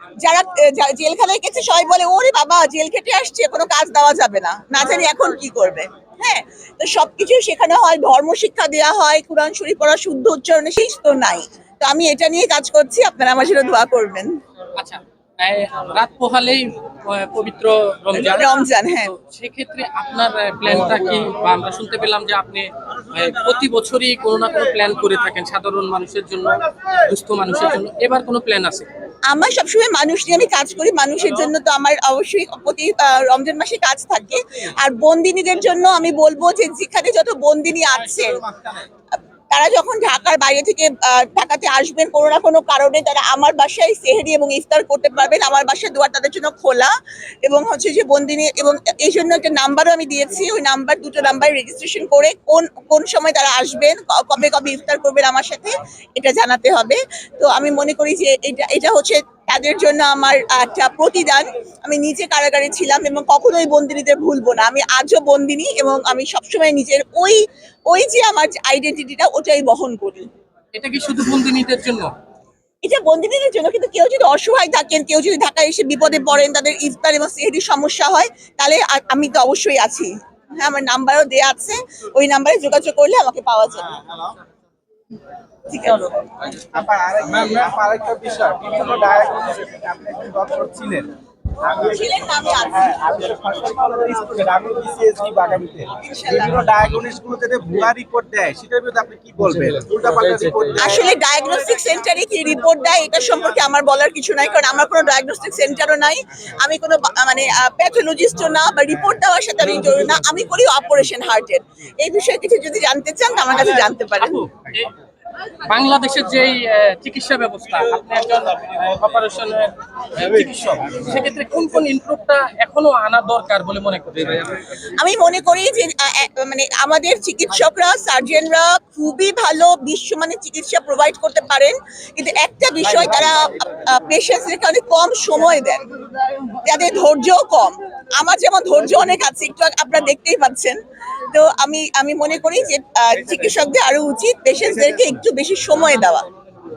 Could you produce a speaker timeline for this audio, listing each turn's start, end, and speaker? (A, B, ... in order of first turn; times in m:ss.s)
0:00.2-0:14.4 A
0:14.8-0:28.9 B
0:18.2-0:19.1 A
0:29.3-0:38.4 A
0:38.2-0:38.9 C
0:39.5-0:46.9 A
0:47.4-1:10.3 A
1:10.7-1:12.1 B
1:12.8-1:24.0 A
1:24.0-1:24.3 C
1:25.7-1:26.2 A
1:26.6-1:32.1 C
1:31.8-1:33.0 A
1:32.6-1:41.1 C
1:36.0-1:36.7 A
1:40.8-1:54.5 A
1:54.2-1:54.9 B
1:55.6-2:04.7 B
2:04.8-2:15.9 A
2:16.5-2:20.8 A
2:21.3-2:26.3 A